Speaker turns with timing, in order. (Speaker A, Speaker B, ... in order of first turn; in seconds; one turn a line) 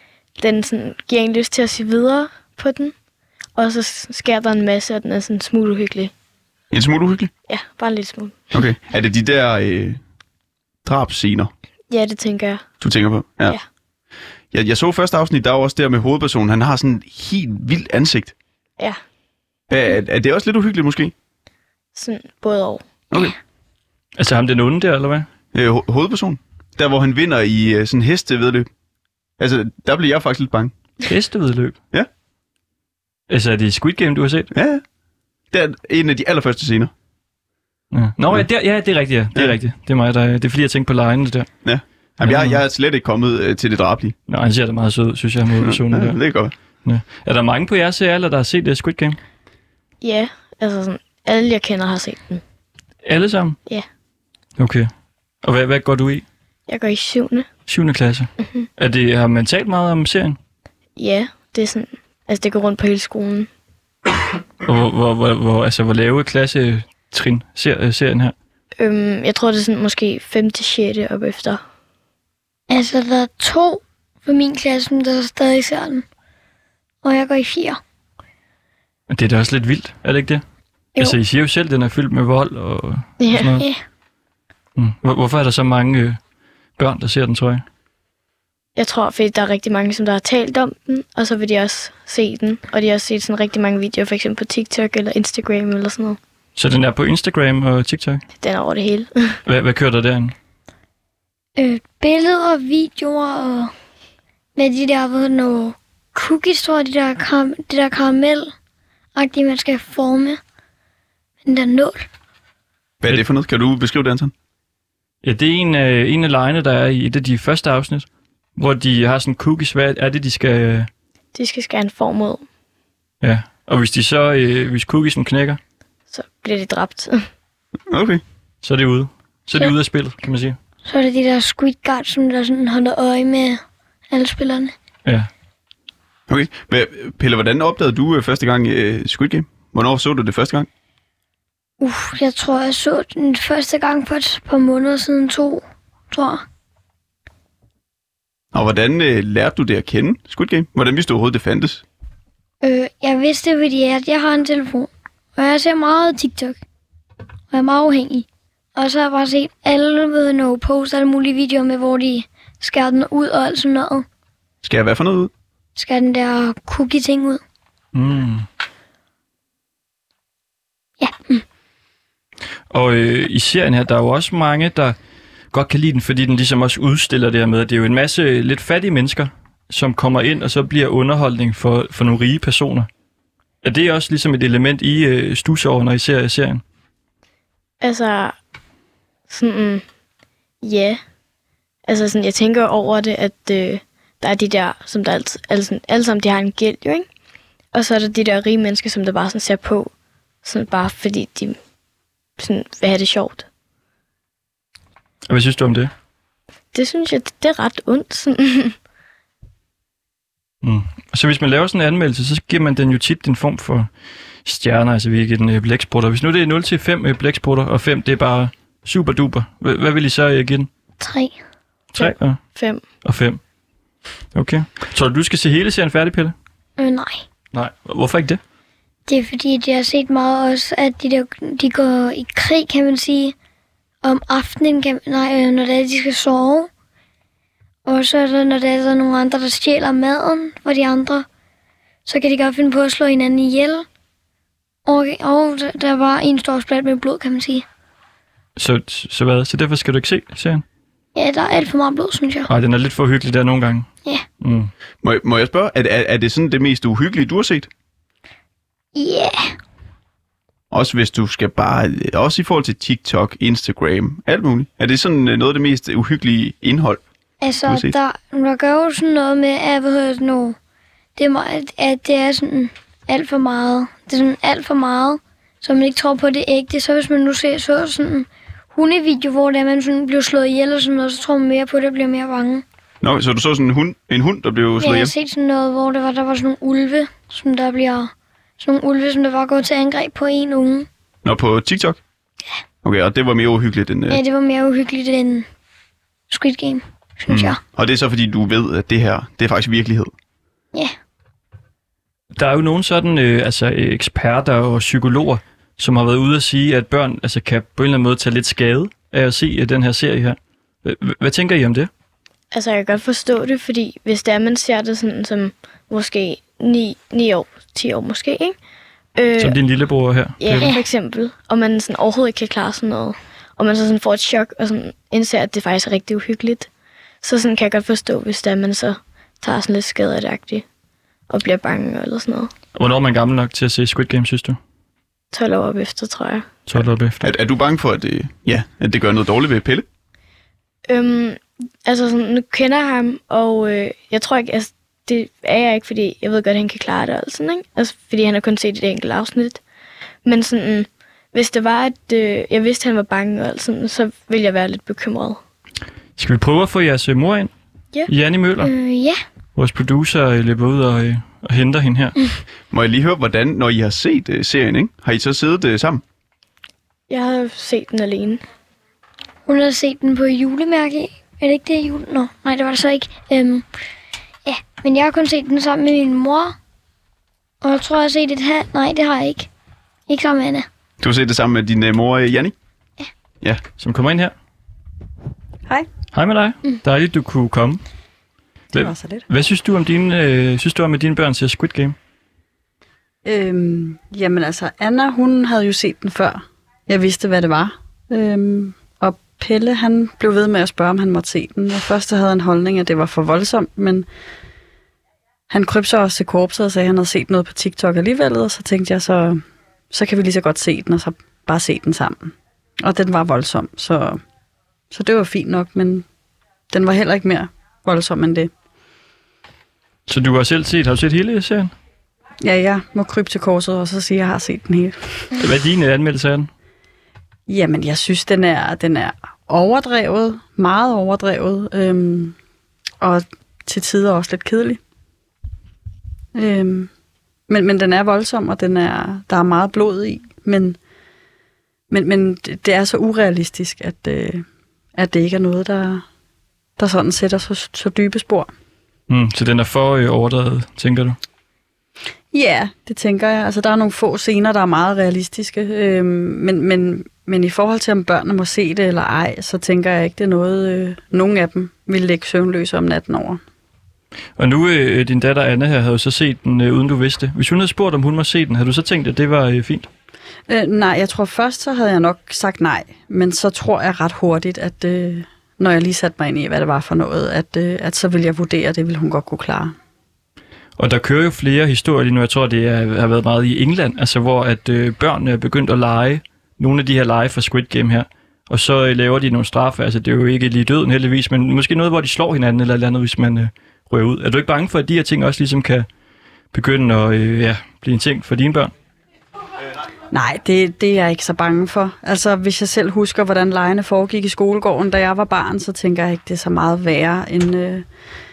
Speaker A: 0.4-3.0
Speaker A: 3.5-6.1
Speaker B: 6.7-7.3
Speaker A: 7.5-8.5
Speaker B: 8.5-10.0
Speaker B: 10.8-11.5
Speaker A: 11.9-12.7
Speaker B: 12.8-13.6
Speaker B: 14.5-18.3
Speaker B: 19.7-21.1
Speaker A: 21.9-22.9
Speaker C: 24.2-25.3
Speaker B: 25.5-28.7
Speaker B: 29.4-30.7
Speaker C: 31.1-31.8
Speaker C: 33.3-34.5
Speaker B: 34.5-34.8
Speaker B: 35.5-36.9
Speaker C: 37.9-41.5
Speaker B: 41.6-44.1
Speaker C: 42.2-42.6
Speaker C: 44.3-46.2
Speaker B: 45.6-46.5
Speaker C: 46.8-49.2
Speaker A: 50.0-52.4
Speaker C: 53.1-53.6
Speaker C: 54.6-54.9
Speaker C: 55.4-56.2
Speaker A: 56.7-57.5
Speaker C: 57.7-60.4
Speaker A: 61.0-63.5
Speaker C: 64.7-68.3
Speaker A: 68.8-71.6
Speaker D: 72.7-76.0
Speaker D: 77.0-77.8
Speaker C: 79.1-80.4
Speaker C: 81.0-83.6
Speaker A: 83.2-83.6
Speaker D: 83.6-83.8
Speaker C: 84.8-86.2
Speaker C: 86.8-87.6
Speaker A: 88.8-96.2
Speaker C: 96.6-98.2
Speaker A: 98.4-99.4
Speaker C: 99.5-100.3
Speaker D: 101.6-103.7
Speaker D: 104.6-108.5
Speaker D: 109.2-110.4
Speaker D: 111.4-112.1
Speaker B: 113.0-114.3
Speaker C: 115.2-120.9
Speaker A: 121.3-122.4
Speaker C: 123.2-125.6
Speaker A: 126.1-127.2
Speaker B: 127.9-128.2
Speaker C: 128.6-130.6
Speaker D: 130.8-134.7
Speaker B: 136.3-140.7
Speaker D: 141.8-146.4
Speaker B: 148.5-151.8
Speaker D: 152.6-156.6
Speaker D: 157.5-164.1
Speaker B: 164.6-165.3
Speaker D: 165.8-167.4
Speaker C: 167.9-168.5
Speaker D: 171.0-171.4
Speaker C: 172.7-175.0
Speaker C: 175.5-182.9
Speaker C: 183.6-186.6
Speaker A: 187.8-188.4
Speaker A: 189.3-189.8
Speaker A: 190.6-191.0
Speaker A: 191.9-197.1
Speaker A: 197.7-199.9
Speaker A: 200.4-201.6
Speaker A: 202.4-203.5
Speaker C: 205.3-205.9
Speaker A: 206.7-208.8
Speaker C: 210.6-213.9
Speaker C: 214.4-220.7
Speaker D: 221.0-221.4
Speaker C: 222.0-222.4
Speaker A: 222.0-222.8
Speaker C: 223.0-223.4
Speaker C: 224.3-226.3
Speaker D: 226.8-227.3
Speaker C: 227.5-228.4
Speaker D: 229.1-233.3
Speaker D: 234.0-236.7
Speaker D: 237.9-241.3
Speaker D: 242.1-243.8
Speaker D: 244.9-247.7
Speaker C: 248.6-250.6
Speaker D: 251.2-252.5
Speaker C: 252.5-253.9
Speaker C: 254.4-254.7
Speaker B: 255.0-257.7
Speaker D: 259.0-259.5
Speaker B: 260.7-267.0
Speaker D: 267.4-270.6
Speaker B: 267.7-267.9
Speaker D: 271.2-282.6
Speaker B: 283.0-285.1
Speaker D: 284.8-290.9
Speaker B: 291.2-292.0
Speaker B: 292.8-294.2
Speaker D: 294.1-295.5
Speaker D: 296.3-297.6
Speaker B: 297.3-300.1
Speaker C: 302.4-311.9
Speaker A: 312.5-318.6
Speaker A: 319.2-319.6
Speaker C: 319.4-320.7
Speaker A: 320.4-326.7
Speaker A: 327.2-330.6
Speaker A: 331.3-332.5
Speaker C: 332.8-334.6
Speaker A: 335.3-336.5
Speaker C: 336.7-337.3
Speaker B: 336.8-339.9
Speaker A: 340.9-349.6
Speaker A: 350.2-355.4
Speaker C: 356.2-357.5
Speaker C: 358.1-358.7
Speaker D: 358.6-359.2
Speaker C: 359.6-362.1
Speaker B: 362.7-366.0
Speaker A: 367.1-368.4
Speaker D: 369.5-373.6
Speaker D: 374.5-376.6
Speaker D: 377.6-379.5
Speaker D: 380.1-380.7
Speaker B: 381.0-382.5
Speaker C: 383.8-384.3
Speaker C: 386.1-387.8
Speaker C: 388.7-392.0
Speaker E: 388.7-389.3
Speaker E: 393.2-404.1
Speaker E: 405.5-414.2
Speaker E: 414.9-416.1
Speaker E: 416.7-418.5
Speaker C: 420.1-421.7
Speaker E: 422.4-425.2
Speaker C: 425.4-426.5
Speaker E: 427.5-432.4
Speaker E: 433.0-434.8
Speaker E: 436.4-436.9
Speaker E: 437.5-440.8
Speaker E: 441.9-446.1
Speaker E: 446.8-448.5
Speaker C: 449.1-451.2
Speaker E: 452.3-463.4
Speaker C: 464.4-469.9
Speaker E: 470.5-479.8
Speaker C: 480.8-495.9
Speaker C: 496.5-498.7
Speaker E: 500.1-507.9